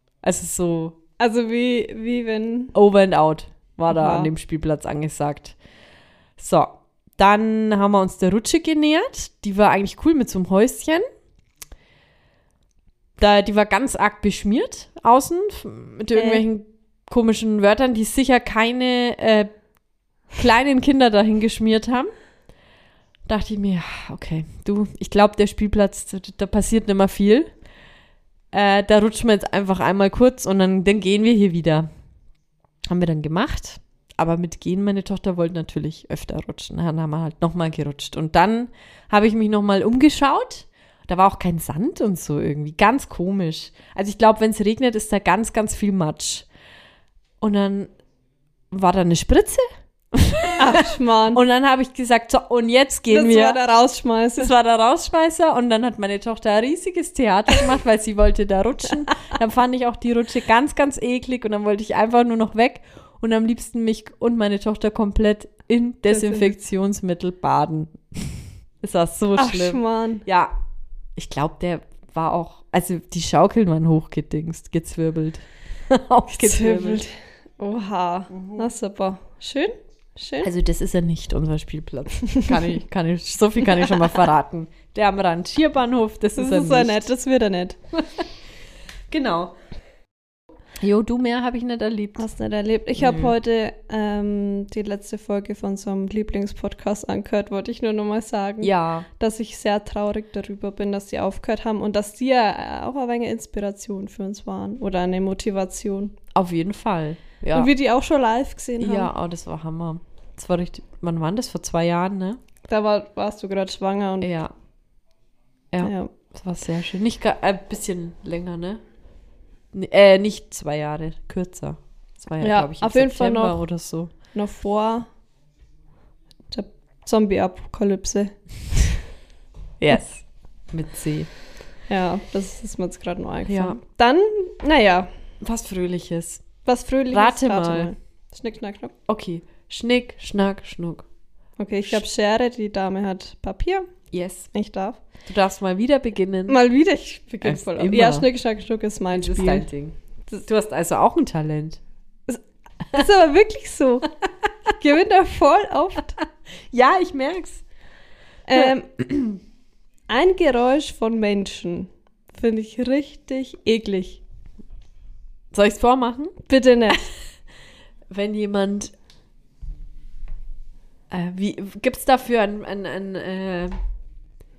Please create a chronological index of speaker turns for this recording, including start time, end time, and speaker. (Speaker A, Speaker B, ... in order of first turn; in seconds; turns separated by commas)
Speaker A: 0.2-1.0, Speaker B: 1.2-2.7, Speaker A: 2.7-5.6, Speaker B: 3.9-4.3, Speaker A: 6.4-11.0, Speaker A: 13.2-19.5, Speaker B: 16.1-16.4, Speaker A: 20.3-22.1, Speaker A: 23.3-27.5, Speaker A: 28.5-31.9, Speaker A: 32.9-46.5, Speaker A: 47.4-47.9, Speaker A: 48.7-53.6, Speaker B: 50.6-51.4, Speaker B: 53.1-54.5, Speaker A: 54.4-70.5, Speaker B: 66.1-66.5, Speaker B: 69.3-70.2, Speaker A: 71.2-77.0, Speaker B: 76.3-80.5, Speaker A: 80.4-87.1, Speaker B: 86.3-87.8, Speaker A: 89.1-89.5, Speaker A: 90.8-92.2, Speaker B: 92.2-106.2, Speaker A: 93.0-93.3, Speaker A: 98.6-99.1, Speaker A: 106.3-107.7, Speaker B: 107.5-109.1, Speaker A: 108.8-112.4, Speaker B: 112.7-114.3, Speaker A: 114.2-114.5, Speaker A: 115.7-118.8, Speaker B: 115.8-116.1, Speaker A: 119.7-124.1, Speaker B: 122.4-123.6, Speaker B: 124.3-125.1, Speaker B: 126.5-128.8, Speaker A: 129.8-131.3, Speaker B: 131.9-135.1, Speaker A: 133.5-133.8, Speaker A: 135.4-136.4, Speaker B: 136.6-138.9, Speaker A: 137.1-137.9, Speaker A: 139.1-141.1, Speaker B: 141.6-143.9, Speaker A: 144.1-144.5, Speaker B: 144.5-145.0, Speaker A: 145.2-146.6, Speaker B: 146.5-149.7, Speaker A: 147.4-148.2, Speaker A: 149.1-151.8, Speaker B: 152.3-154.1, Speaker B: 154.8-156.2, Speaker A: 156.7-157.6, Speaker B: 158.5-158.9, Speaker A: 158.6-159.4, Speaker B: 160.1-164.2, Speaker A: 165.5-166.3, Speaker B: 166.4-167.1, Speaker A: 168.1-168.9, Speaker A: 171.1-173.7